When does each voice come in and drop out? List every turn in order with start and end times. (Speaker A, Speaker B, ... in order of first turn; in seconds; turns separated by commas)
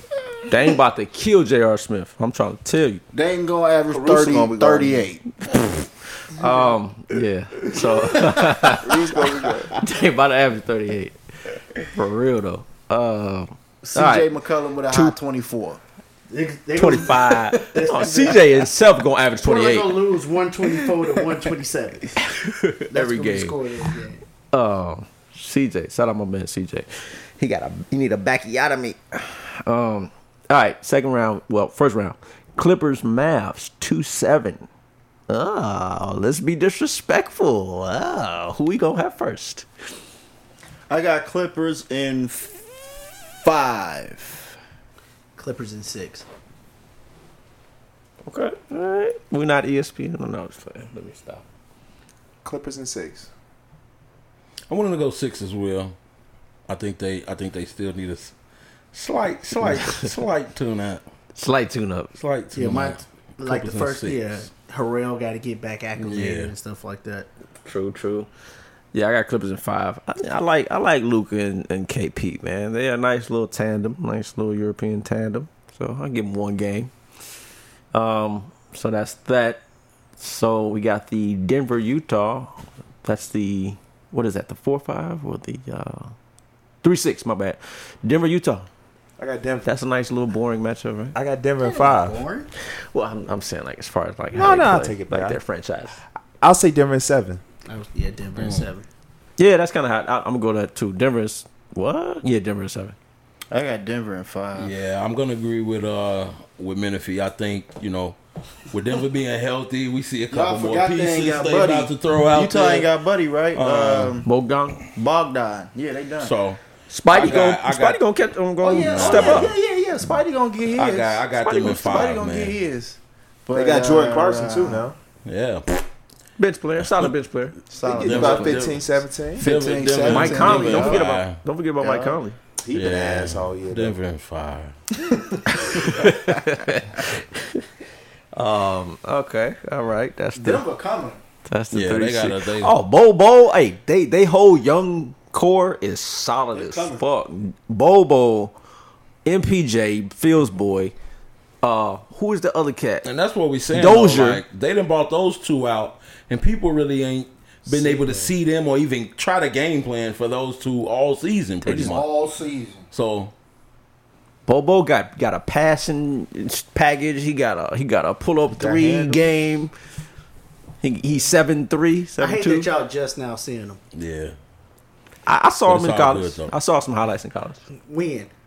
Speaker A: 0.5-3.0, Speaker B: 3.1-5.2, Speaker C: 3.9-5.0, Speaker A: 5.5-11.1, Speaker C: 8.7-9.7, Speaker B: 9.0-9.6, Speaker A: 11.8-14.3, Speaker B: 13.8-15.8, Speaker A: 14.9-15.2, Speaker D: 16.3-18.5, Speaker A: 16.8-20.1, Speaker D: 19.4-22.1, Speaker A: 20.8-21.1, Speaker A: 22.2-23.6, Speaker D: 22.9-24.2, Speaker A: 24.5-26.9, Speaker A: 27.4-34.6, Speaker A: 35.3-39.7, Speaker B: 40.9-42.6, Speaker B: 43.4-44.5, Speaker D: 45.4-46.2, Speaker A: 48.2-51.4, Speaker C: 52.4-53.3, Speaker E: 54.7-55.9, Speaker E: 56.7-58.3, Speaker E: 58.9-61.0, Speaker A: 59.6-60.1, Speaker A: 61.4-62.1, Speaker E: 62.1-64.5, Speaker D: 62.5-67.3, Speaker E: 66.0-66.5, Speaker A: 67.6-68.3, Speaker A: 68.9-76.9, Speaker A: 77.9-79.6, Speaker A: 80.2-86.1, Speaker A: 86.8-88.7, Speaker C: 89.2-89.7, Speaker A: 89.6-91.2, Speaker C: 91.1-92.2, Speaker D: 91.6-92.5, Speaker A: 92.6-96.0, Speaker C: 94.3-95.4, Speaker C: 96.4-97.4, Speaker D: 97.7-98.9, Speaker E: 98.4-98.7, Speaker A: 99.4-102.9, Speaker B: 103.5-104.7, Speaker E: 104.5-108.2, Speaker E: 108.7-112.9, Speaker B: 110.3-114.3, Speaker E: 113.5-114.2, Speaker A: 114.2-114.8, Speaker B: 114.9-116.3, Speaker E: 116.2-118.0, Speaker A: 116.9-119.5, Speaker B: 118.6-124.9, Speaker E: 118.7-119.5, Speaker E: 120.7-122.5, Speaker C: 123.5-125.0, Speaker E: 125.2-125.8, Speaker A: 126.4-127.5, Speaker E: 126.8-127.1, Speaker B: 127.7-128.7, Speaker C: 127.8-129.4, Speaker E: 127.9-128.8, Speaker B: 129.4-131.1, Speaker E: 129.4-131.4, Speaker A: 130.0-132.4, Speaker B: 131.8-132.2, Speaker C: 132.6-134.0, Speaker E: 132.7-134.8, Speaker B: 135.1-135.4, Speaker A: 135.6-137.6, Speaker A: 138.3-140.6, Speaker B: 140.3-141.2, Speaker A: 141.5-148.5, Speaker E: 141.7-142.7, Speaker A: 149.2-150.9, Speaker A: 151.6-153.1, Speaker E: 153.0-162.1, Speaker A: 153.7-154.4, Speaker B: 157.7-158.2, Speaker A: 161.6-161.9, Speaker B: 161.7-162.8, Speaker E: 162.9-163.3, Speaker A: 164.4-169.7, Speaker C: 168.6-169.2, Speaker A: 170.8-172.7, Speaker D: 172.2-173.8, Speaker E: 173.9-174.3, Speaker A: 175.2-177.6, Speaker E: 175.7-176.5, Speaker D: 177.8-178.3